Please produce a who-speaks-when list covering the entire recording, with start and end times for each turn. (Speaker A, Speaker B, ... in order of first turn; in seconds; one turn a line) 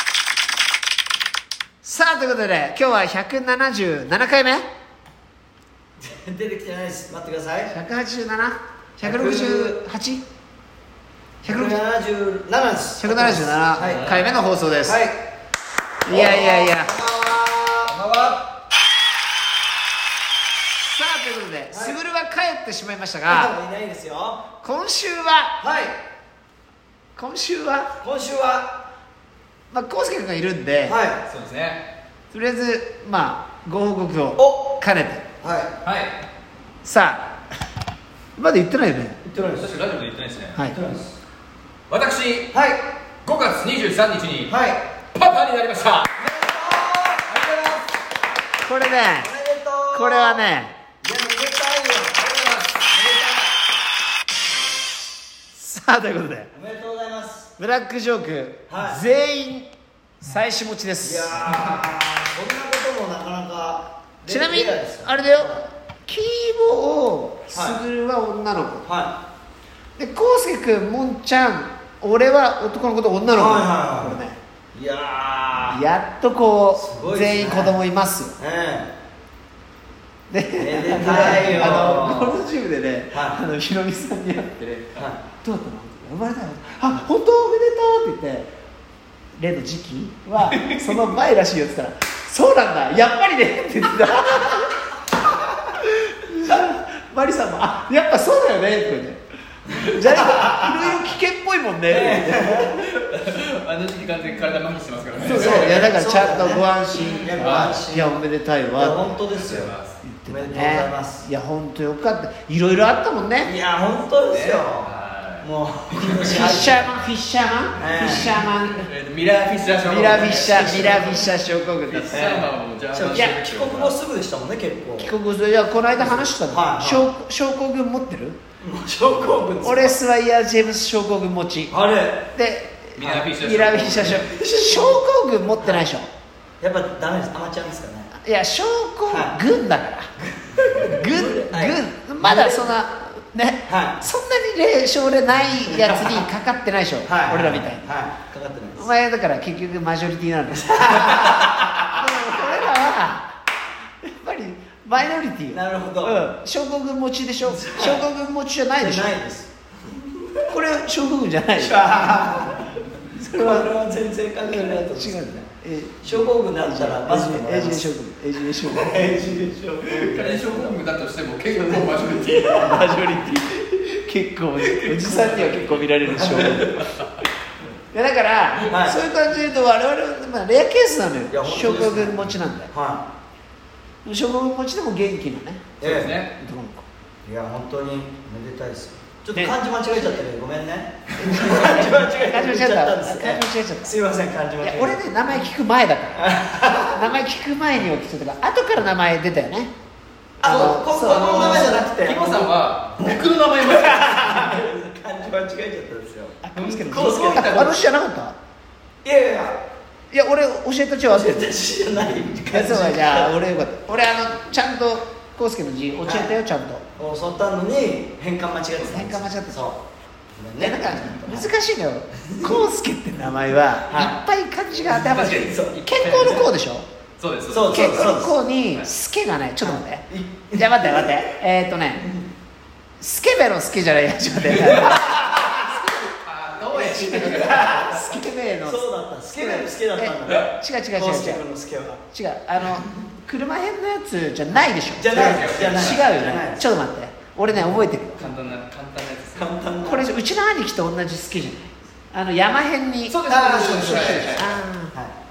Speaker A: 1.8-4.7
Speaker B: 6.0-7.7
Speaker A: 7.7-10.2
Speaker B: 9.0-9.8
Speaker B: 11.4-14.2
Speaker A: 11.4-11.8
Speaker A: 13.0-15.0
Speaker C: 13.8-14.2
Speaker B: 14.8-15.2
Speaker A: 16.0-16.9
Speaker B: 16.1-18.4
Speaker A: 20.8-23.5
Speaker B: 21.7-22.0
Speaker B: 23.3-24.4
Speaker A: 24.6-25.6
Speaker B: 25.6-26.0
Speaker A: 27.1-27.9
Speaker B: 28.0-28.7
Speaker A: 29.7-31.0
Speaker B: 30.8-31.2
Speaker C: 31.3-31.8
Speaker A: 32.3-35.2
Speaker B: 34.4-34.8
Speaker B: 35.4-35.7
Speaker C: 35.8-36.1
Speaker A: 36.8-37.4
Speaker A: 38.4-39.2
Speaker B: 39.2-39.8
Speaker C: 39.5-40.6
Speaker B: 40.7-41.1
Speaker C: 41.9-42.5
Speaker B: 42.5-42.9
Speaker C: 43.2-44.5
Speaker B: 44.5-44.8
Speaker C: 45.1-46.2
Speaker B: 46.2-47.4
Speaker C: 47.2-47.9
Speaker A: 48.6-49.3
Speaker B: 49.2-50.4
Speaker A: 49.9-50.8
Speaker B: 51.0-53.5
Speaker C: 52.2-52.8
Speaker A: 55.5-56.5
Speaker B: 56.5-57.5
Speaker A: 57.6-59.7
Speaker B: 58.7-59.0
Speaker A: 60.2-61.8
Speaker B: 61.0-65.6
Speaker A: 64.3-68.8
Speaker B: 67.5-67.8
Speaker B: 68.8-69.2
Speaker A: 70.0-74.4
Speaker B: 73.3-74.2
Speaker B: 74.7-75.8
Speaker A: 75.7-78.3
Speaker B: 76.7-77.8
Speaker B: 78.4-78.9
Speaker A: 80.3-88.5
Speaker B: 80.6-82.5
Speaker C: 81.3-81.6
Speaker B: 83.1-83.4
Speaker B: 84.9-85.2
Speaker A: 89.4-94.9
Speaker A: 95.5-99.2
Speaker A: 99.7-102.7
Speaker B: 100.1-101.0
Speaker B: 101.9-102.7
Speaker C: 102.7-105.9
Speaker A: 105.2-109.0
Speaker B: 105.2-106.6
Speaker B: 107.2-108.2
Speaker C: 107.2-107.8
Speaker B: 108.8-109.7
Speaker C: 109.1-110.0
Speaker A: 110.0-113.5
Speaker B: 110.3-111.2
Speaker B: 113.4-114.9
Speaker C: 114.2-115.5
Speaker B: 115.4-116.8
Speaker C: 116.0-116.8
Speaker A: 116.3-118.9
Speaker B: 117.8-118.3
Speaker C: 117.8-121.3
Speaker A: 119.8-122.3
Speaker C: 121.9-124.0
Speaker B: 122.1-125.1
Speaker A: 125.0-128.4
Speaker B: 126.0-127.0
Speaker B: 128.6-130.0
Speaker A: 129.6-131.7
Speaker B: 131.7-132.3
Speaker A: 132.3-136.1
Speaker C: 133.0-134.4
Speaker B: 134.2-135.0
Speaker B: 135.6-135.9
Speaker B: 136.6-138.1
Speaker A: 138.2-140.1
Speaker B: 139.1-139.3
Speaker B: 140.3-142.7
Speaker A: 140.7-147.9
Speaker B: 143.7-144.0
Speaker B: 145.6-146.3
Speaker B: 147.0-148.9
Speaker A: 148.8-153.3
Speaker B: 150.6-152.0
Speaker A: 154.0-159.1
Speaker B: 155.5-156.3
Speaker B: 157.4-158.1
Speaker B: 158.8-160.4
Speaker A: 160.5-162.1
Speaker B: 161.6-162.8
Speaker A: 163.1-163.7
Speaker B: 163.3-165.4
Speaker A: 164.4-169.3
Speaker B: 166.0-167.9
Speaker B: 168.6-170.8
Speaker C: 169.8-173.1
Speaker A: 172.4-177.0
Speaker C: 174.6-175.8
Speaker B: 176.1-176.6
Speaker C: 176.6-177.1
Speaker A: 177.9-182.7
Speaker B: 178.7-179.0
Speaker B: 181.3-183.0
Speaker A: 184.0-185.7
Speaker C: 185.8-186.3
Speaker B: 185.8-186.2
Speaker A: 186.4-186.8
Speaker B: 187.2-195.0
Speaker A: 189.3-190.2
Speaker A: 191.2-193.9
Speaker A: 194.6-196.3
Speaker B: 196.2-197.0
Speaker A: 196.9-199.7
Speaker B: 200.4-207.8
Speaker A: 200.4-202.1
Speaker C: 200.4-204.6
Speaker A: 206.4-208.4
Speaker C: 206.5-207.8
Speaker B: 209.0-209.6
Speaker A: 210.1-211.5
Speaker B: 211.1-213.4
Speaker A: 212.5-216.8
Speaker B: 217.0-219.8
Speaker A: 218.9-219.8
Speaker B: 220.3-221.5
Speaker A: 220.6-226.9
Speaker B: 222.3-222.6
Speaker B: 223.9-224.2
Speaker B: 224.8-226.5
Speaker C: 224.9-226.5
Speaker C: 227.2-228.1
Speaker B: 227.5-228.4
Speaker A: 227.7-232.1
Speaker B: 229.6-231.2
Speaker A: 233.0-236.1
Speaker C: 234.9-237.8
Speaker B: 235.0-235.5
Speaker A: 236.7-241.4
Speaker B: 237.0-238.0
Speaker B: 238.6-242.0
Speaker A: 242.1-248.4
Speaker B: 245.0-246.7
Speaker C: 245.1-246.0
Speaker B: 247.5-247.8
Speaker C: 248.1-249.6
Speaker B: 249.3-250.1
Speaker A: 249.8-254.9
Speaker C: 253.1-254.6
Speaker B: 253.3-255.1